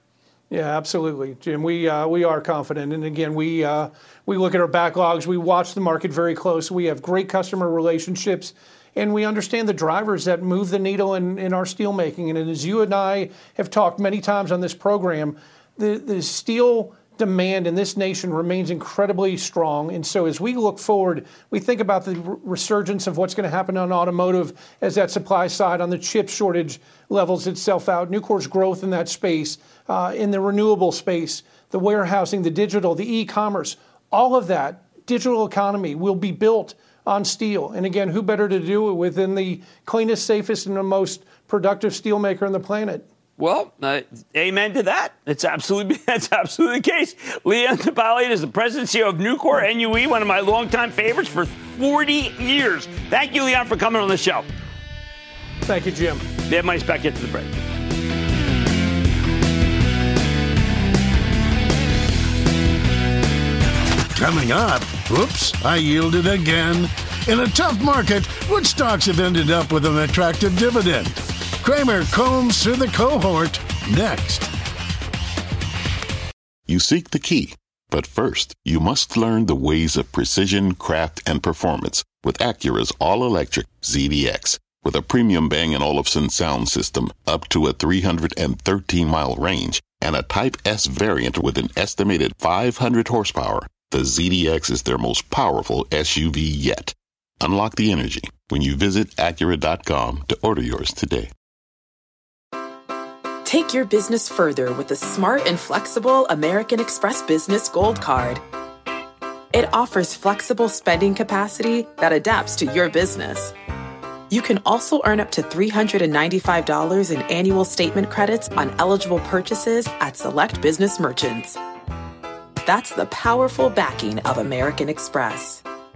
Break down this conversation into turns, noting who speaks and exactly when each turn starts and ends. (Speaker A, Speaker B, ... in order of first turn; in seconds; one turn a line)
Speaker A: 0.5-43.0
Speaker B: 43.4-54.5
Speaker A: 55.7-56.2
Speaker B: 56.5-57.6
Speaker C: 64.2-74.5
Speaker D: 76.7-101.3
Speaker E: 103.5-108.4
Speaker E: 109.5-113.5
Speaker E: 114.3-121.6
Speaker E: 122.7-125.6